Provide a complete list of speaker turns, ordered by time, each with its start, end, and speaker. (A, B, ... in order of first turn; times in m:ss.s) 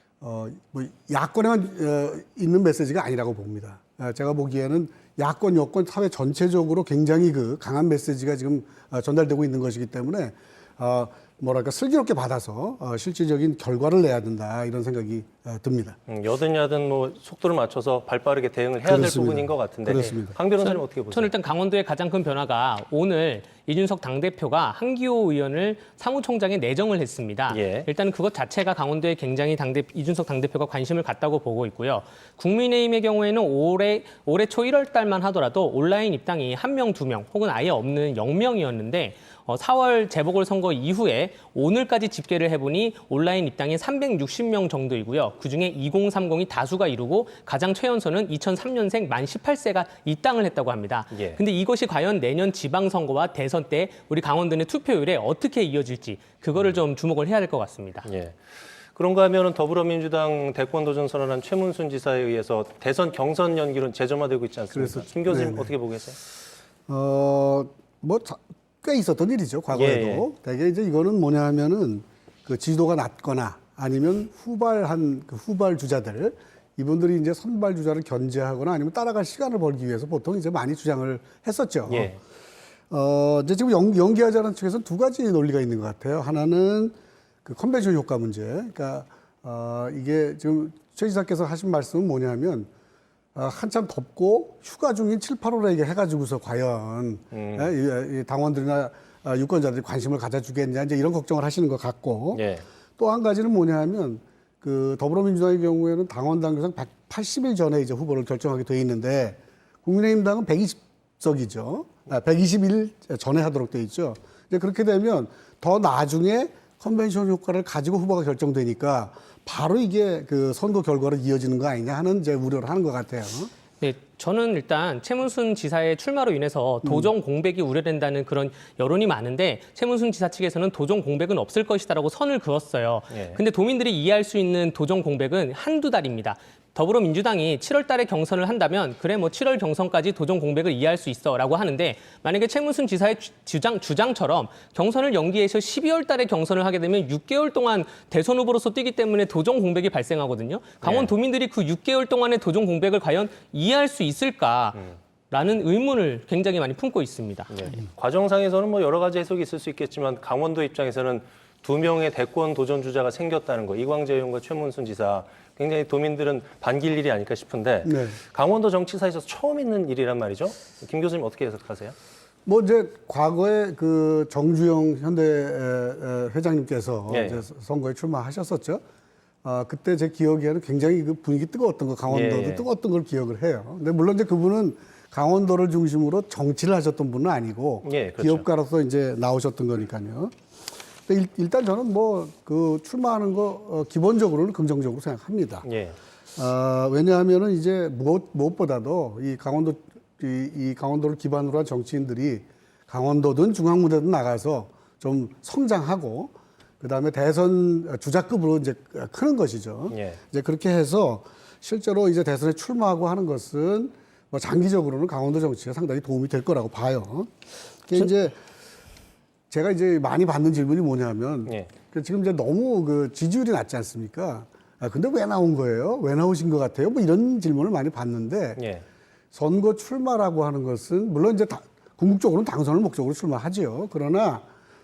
0:00.2-0:16.0 A
0:16.1-0:21.3 B
0:18.9-0:20.4 A
0:20.0-0:58.1 C
0:27.5-0:27.9 B
0:51.1-0:51.4 B
0:58.0-0:58.4 B
0:59.0-1:06.2 B
1:04.7-1:05.7 A
1:06.9-1:22.1 A
1:09.7-1:10.3 B
1:21.9-1:22.2 B
1:22.9-1:32.7 A
1:33.4-1:42.4 A
1:37.3-1:37.7 B
1:42.3-1:42.6 B
1:43.0-2:03.5 A
2:03.8-2:37.7 C
2:13.1-2:13.4 B
2:30.8-2:31.1 B
2:37.5-2:52.0 B
2:47.8-2:48.2 A
2:52.5-2:58.8 A
2:57.1-2:57.4 B
2:59.4-3:10.4 A
3:02.1-3:02.7 B
3:07.8-3:08.4 B
3:11.1-3:15.7 A
3:15.6-3:16.0 B
3:16.4-3:37.3 A
3:29.9-3:30.2 B
3:37.8-3:38.4 A
3:39.5-3:48.6 A
3:48.6-3:48.8 B
3:49.3-3:54.5 A